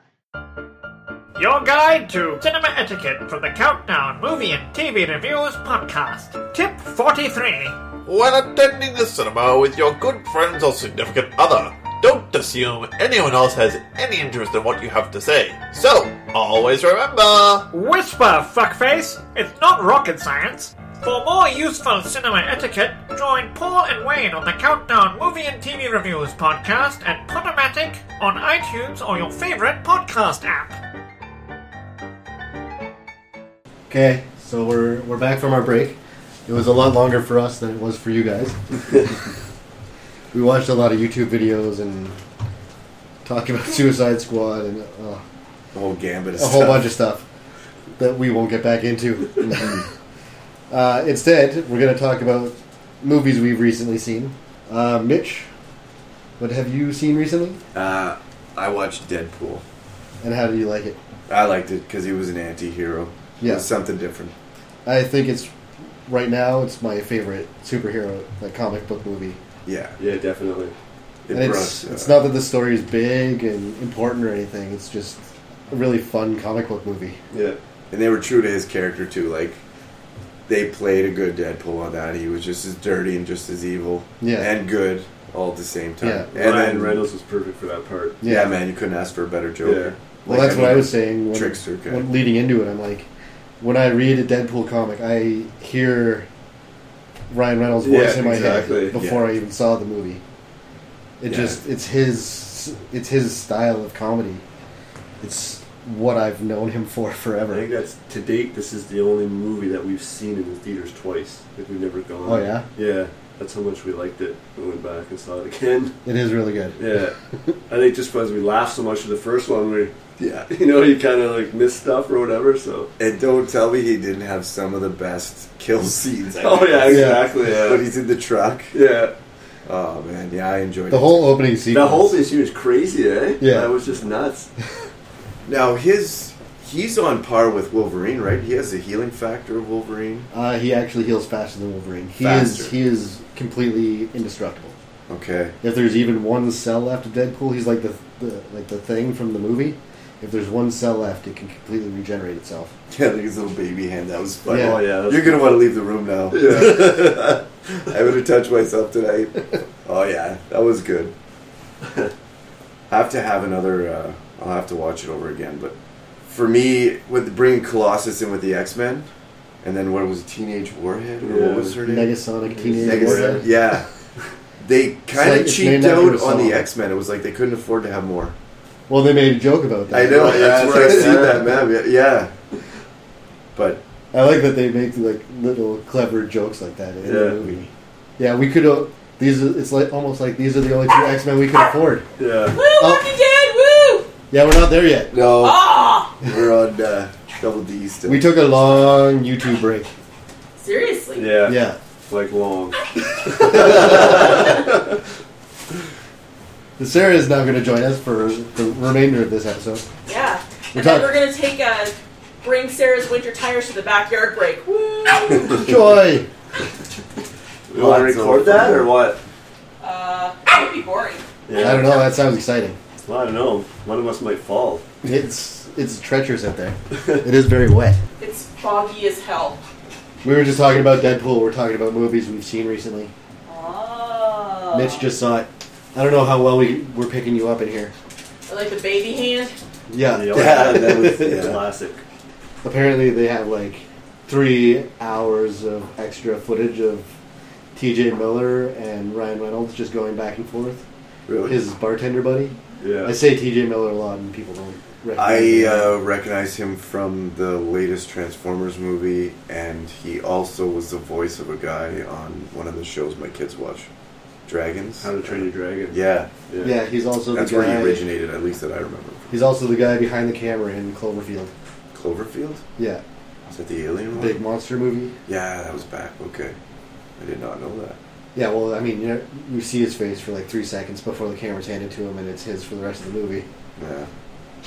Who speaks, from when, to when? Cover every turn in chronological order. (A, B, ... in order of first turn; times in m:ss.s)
0:01.4-0:07.8 A
0:08.0-0:17.6 B
0:17.7-0:30.8 A
0:33.9-0:39.0 C
0:40.3-0:42.2 C
0:43.2-0:45.2 C
0:45.7-0:46.9 D
0:46.4-0:47.2 C
0:48.0-0:49.8 C
0:49.4-0:49.8 D
0:50.7-0:55.5 C
0:56.4-0:57.6 C
0:57.7-0:59.6 D
1:00.2-1:01.0 C
1:01.3-1:04.3 D
1:03.4-1:03.7 C
1:04.8-1:05.5 C
1:06.1-1:09.4 C
1:09.6-1:10.0 D
1:10.0-1:10.7 E
1:11.2-1:12.2 D
1:11.3-1:17.2 C
1:17.3-1:17.6 E
1:17.9-1:19.6 D
1:20.5-1:27.0 D
1:24.2-1:24.5 C
1:26.0-1:26.3 C
1:26.3-1:28.2 E
1:28.2-1:28.5 C
1:28.2-1:32.1 D
1:29.6-1:29.9 E
1:30.3-1:33.1 C
1:33.6-1:36.3 C
1:37.3-1:40.2 C
1:37.8-1:39.0 E
1:38.9-1:39.3 D
1:41.2-1:44.4 C
1:41.3-1:41.6 D
1:45.2-1:47.7 C
1:47.5-1:56.0 E
1:52.2-1:52.6 C
1:56.0-1:56.8 C
1:56.8-1:57.2 E
1:57.7-1:59.9 E
2:00.2-2:00.5 D
2:00.5-2:02.9 E
2:03.0-2:08.7 D
2:06.4-2:07.8 E
2:06.9-2:07.3 C
2:08.7-2:09.1 E
2:09.6-2:11.4 D
2:10.9-2:12.2 C
2:11.7-2:14.5 E
2:13.4-2:13.7 C
2:15.4-2:20.3 D
2:20.3-2:24.7 C
2:22.2-2:22.7 D
2:25.1-2:25.5 D
2:25.6-2:32.7 C
2:32.9-2:41.1 D
2:34.5-2:34.8 C
2:34.5-2:35.6 E
2:36.3-2:37.2 E
2:42.9-2:45.7 D
2:46.2-2:49.1 D
2:49.6-2:52.2 D
2:51.2-2:51.8 E
2:51.8-2:53.4 C
2:52.5-2:53.6 E
2:52.8-2:53.8 D
2:54.6-2:58.3 D
2:55.1-2:56.6 C
2:58.9-3:01.2 C
2:59.9-3:02.3 D
2:59.9-3:01.6 E
3:03.5-3:03.8 D
3:04.1-3:12.0 C
3:07.0-3:07.4 E
3:07.4-3:07.7 D
3:12.2-3:12.6 E
3:12.5-3:14.1 F
3:12.8-3:13.1 C
3:14.3-3:15.1 C
3:15.1-3:18.4 D
3:15.2-3:16.1 F
3:18.0-3:19.9 C
3:20.6-3:21.4 F
3:21.2-3:24.6 E
3:21.4-3:21.8 C
3:26.8-3:29.8 C
3:30.0-3:35.7 F
3:30.7-3:31.1 C
3:35.5-3:36.3 C
3:37.7-3:39.2 E
3:37.7-3:39.0 D
3:39.8-3:42.1 F
3:41.5-3:41.9 E
3:41.6-3:42.8 C
3:43.0-3:44.8 E
3:45.0-3:48.0 C
3:48.2-3:49.6 F
3:50.2-3:53.1 C
3:53.5-3:55.1 F
3:54.7-3:57.9 C
3:58.5-3:59.6 F
3:59.9-4:01.5 C
4:00.1-4:02.0 E
4:00.3-4:01.6 D
4:02.6-4:07.1 C
4:07.7-4:10.8 C
4:11.3-4:11.6 D
4:11.4-4:16.0 C
4:12.8-4:13.1 E
4:15.2-4:23.9 D
4:24.5-4:26.3 D
4:25.0-4:26.0 E
4:26.5-4:26.8 E
4:26.6-4:28.0 C
4:27.3-4:29.3 D
4:29.3-4:31.5 C
4:31.9-4:32.6 D
4:32.8-4:33.0 C
4:33.5-4:34.4 D
4:34.1-4:35.2 C
4:35.3-4:36.6 D
4:37.2-4:38.0 D
4:38.3-4:43.4 C
4:43.8-4:44.1 D